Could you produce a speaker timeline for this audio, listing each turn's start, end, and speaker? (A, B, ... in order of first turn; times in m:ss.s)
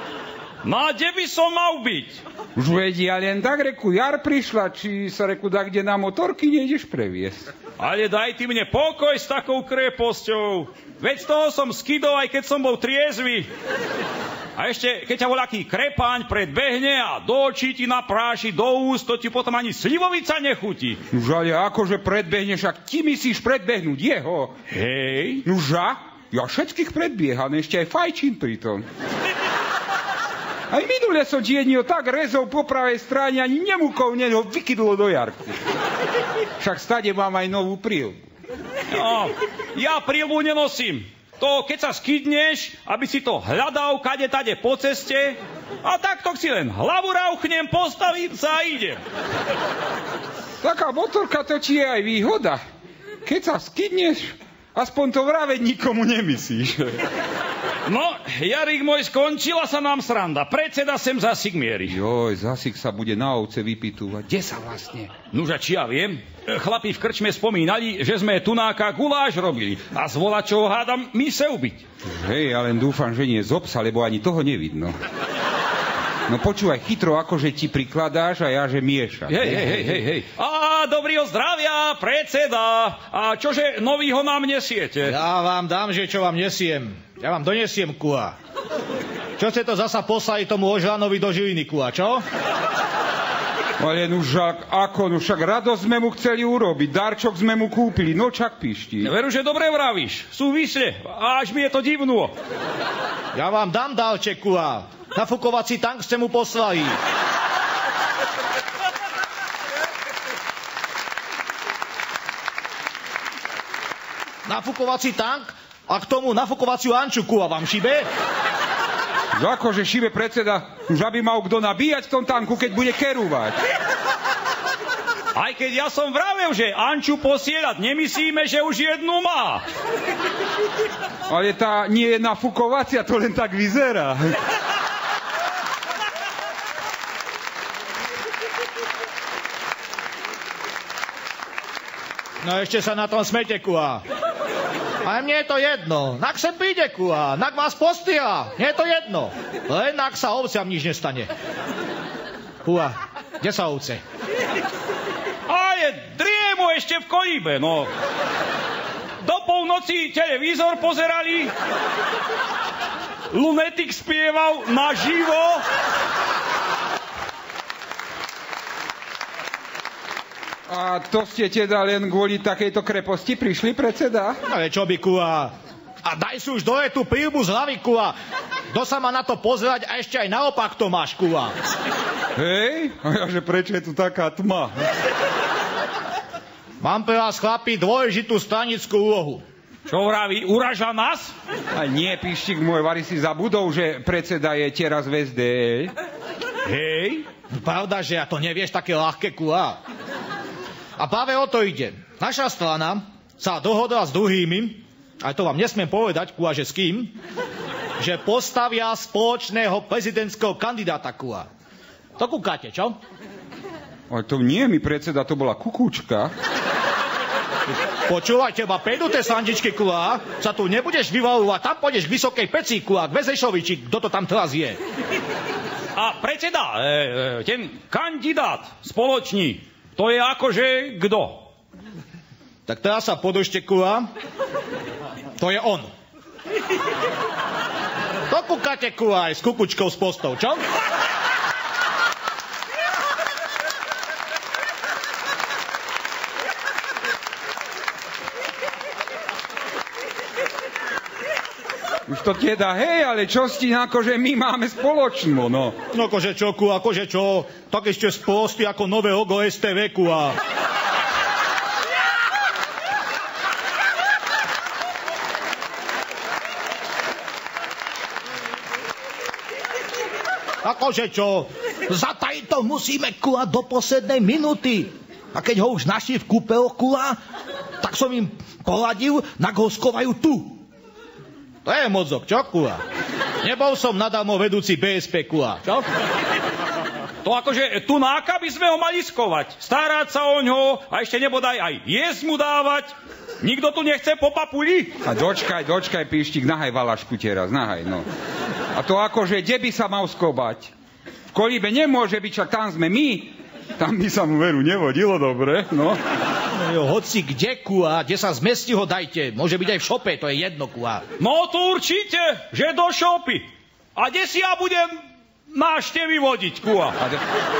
0:00.6-0:02.2 A
0:02.5-0:07.5 B
0:07.8-0:13.5 A
0:14.6-0:21.0 A
0:21.1-0:24.6 B
0:24.7-0:25.4 A
0:25.4-0:28.8 B
0:30.7-0:35.6 B
0:36.6-0:38.2 B
0:38.9-0:49.0 A
0:50.6-0:52.6 B
0:53.2-0:57.0 B
0:57.8-1:02.0 A
1:01.9-1:05.1 B
1:05.3-1:11.8 A
1:12.0-1:14.9 B
1:16.3-1:19.6 B
1:19.3-1:25.2 A
1:25.0-1:28.3 C
1:29.4-1:32.2 C
1:33.8-1:39.1 B
1:39.0-1:42.3 A
1:43.3-1:46.9 C
1:54.4-1:58.0 C
1:59.3-2:03.6 B
2:05.3-2:09.6 A
2:11.3-2:14.4 B
2:22.4-2:24.0 C
2:25.0-2:31.3 C
2:32.6-2:34.0 C
2:35.5-2:37.9 A
2:39.2-2:41.5 A
2:43.3-2:45.6 A
2:50.7-2:54.4 B
2:54.5-2:55.5 C
2:56.0-2:58.1 C
2:58.7-3:01.5 C
3:02.4-3:04.7 B
3:06.8-3:09.4 C
3:09.9-3:11.3 A
3:11.7-3:15.9 B
3:16.6-3:17.2 A
3:17.5-3:19.8 C
3:21.0-3:27.1 C
3:28.0-3:31.5 C
3:32.2-3:33.0 C
3:34.1-3:36.3 B
3:38.1-3:44.8 C
3:45.9-3:51.5 A
3:52.7-3:54.1 C
3:55.4-3:55.9 C
3:58.3-4:00.6 C
4:12.1-4:15.8 B
4:15.9-4:20.4 C
4:30.6-4:37.2 C
4:37.8-4:40.6 C
4:41.6-4:42.8 C
4:43.4-4:45.8 C
4:47.2-4:54.9 A
4:55.0-4:58.0 B
4:58.7-5:00.7 B
5:01.3-5:06.0 B
5:06.5-5:11.0 C
5:11.2-5:15.0 A
5:15.5-5:17.0 A